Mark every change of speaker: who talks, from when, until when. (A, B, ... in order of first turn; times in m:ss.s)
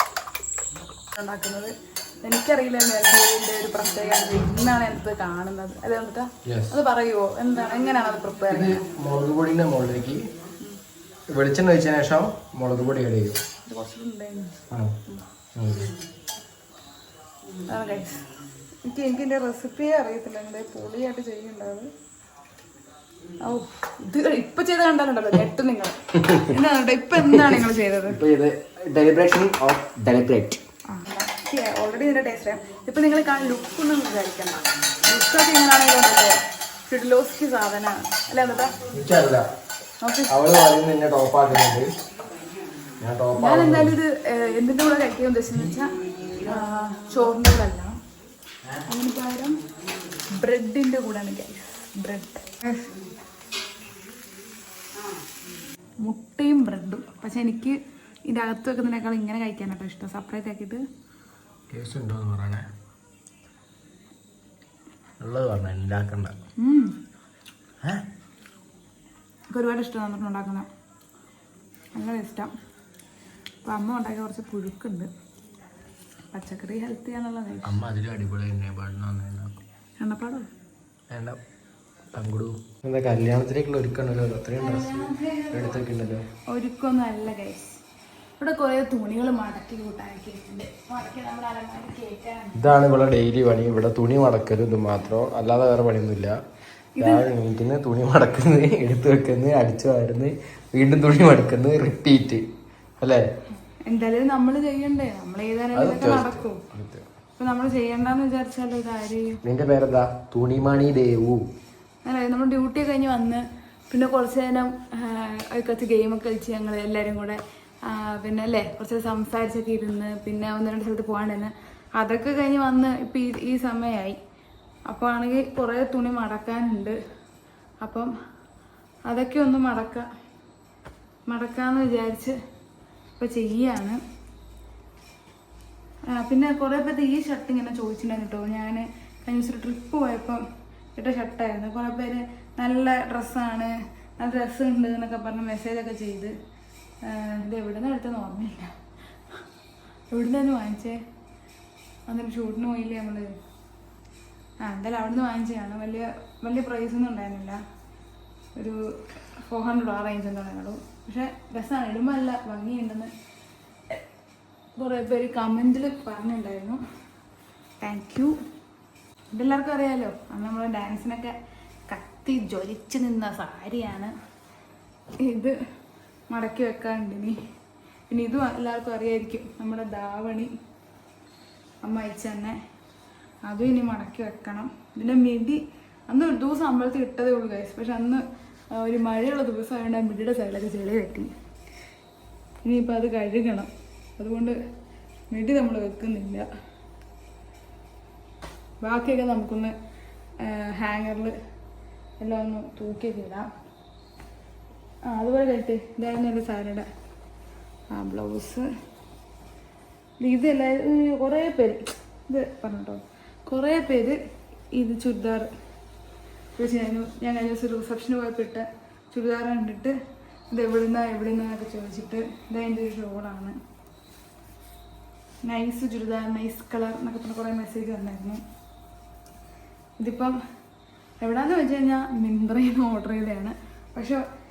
0:01.1-0:08.8 A
0:06.4-0:06.8 B
0:08.5-0:10.2 B
0:11.3-0:13.4 B
0:13.6-0:14.6 A
0:14.7-0:15.0 B
0:15.5-0:15.9 B
0:17.7-0:18.3 A
0:18.8-0:21.9 A
0:23.4-0:28.2 A
0:26.2-0:26.5 B
0:27.2-0:27.5 B
0:28.1-0:30.6 B
0:30.9-0:38.8 A
0:38.9-0:39.4 B
0:40.0-0:40.3 A
0:40.3-0:41.9 B
0:43.0-0:43.9 B
0:43.4-0:48.0 A
0:48.9-0:49.6 A
0:50.4-0:52.9 A
0:56.0-0:57.8 A
0:58.3-1:00.8 A
1:01.7-1:02.6 B
1:05.2-1:06.3 B
1:06.6-1:06.9 A
1:09.5-1:10.7 A
1:11.9-1:12.5 A
1:13.6-1:15.1 A
1:16.3-1:17.8 A
1:17.6-1:19.6 B
1:20.0-1:20.5 A
1:21.1-1:21.4 B
1:22.1-1:26.2 B
1:24.6-1:25.8 A
1:26.5-1:27.8 A
1:28.4-1:32.7 A
1:32.5-1:36.4 B
1:37.0-1:37.3 A
1:37.0-1:42.4 B
1:43.8-1:46.6 A
1:45.7-1:47.0 B
1:47.4-1:49.4 A
1:49.4-1:51.4 B
1:52.0-2:04.2 A
2:04.9-2:07.0 A
2:07.8-2:08.1 A
2:09.1-2:10.1 A
2:11.3-2:12.4 A
2:13.2-2:14.0 A
2:16.1-2:20.4 A
2:21.0-2:26.3 A
2:27.0-2:28.8 A
2:30.1-2:31.0 A
2:32.1-2:33.3 A
2:34.6-2:37.6 A
2:39.4-2:43.1 A
2:44.8-2:46.8 A
2:47.8-2:48.3 A
2:49.3-2:51.4 A
2:51.9-2:54.1 A
2:55.2-2:55.6 A
2:56.3-2:57.4 A
2:58.1-3:00.5 A
3:01.8-3:02.6 A
3:03.4-3:11.3 A
3:12.6-3:14.6 A
3:15.3-3:16.5 A
3:18.8-3:19.7 A
3:20.4-3:21.4 A
3:22.2-3:23.5 A
3:25.0-3:26.9 A
3:27.9-3:28.7 A
3:30.2-3:34.2 A
3:34.7-3:35.5 A
3:36.6-3:39.9 A
3:40.5-3:43.6 A
3:45.4-3:48.4 A
3:50.0-3:50.4 A
3:51.2-3:54.2 A